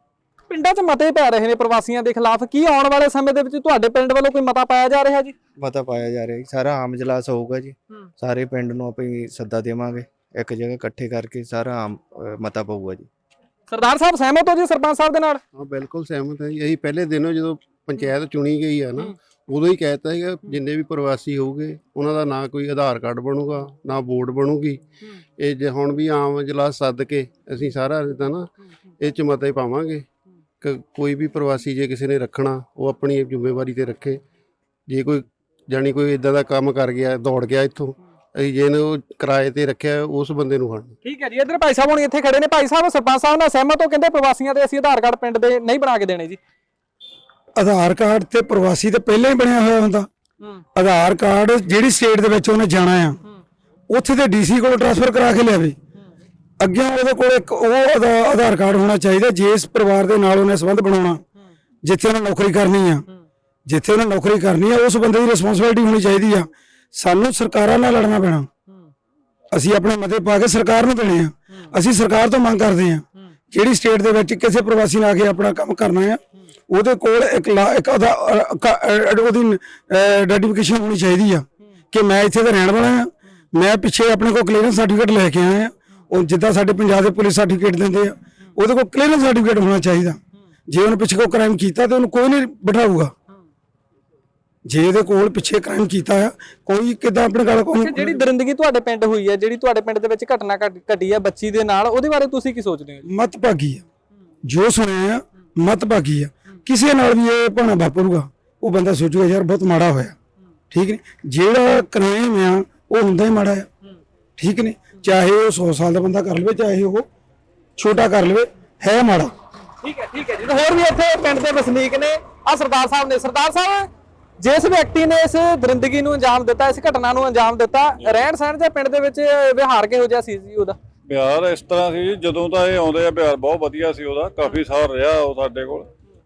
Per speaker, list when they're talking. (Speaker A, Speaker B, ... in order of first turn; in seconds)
Speaker A: 0.5-5.3, 13.7-15.4, 41.0-46.4, 97.7-103.1, 119.8-130.8
Speaker B: 5.6-13.1
Speaker C: 15.5-30.1, 30.6-34.2, 34.9-41.0
Speaker D: 47.6-50.1, 50.8-53.2, 53.9-55.8, 56.6-61.2, 61.8-63.0, 63.7-68.5, 69.5-93.1, 94.7-98.1, 103.0-103.8, 104.5-110.2, 110.7-113.7, 114.4-117.1, 117.8-119.3
Speaker E: 131.1-135.9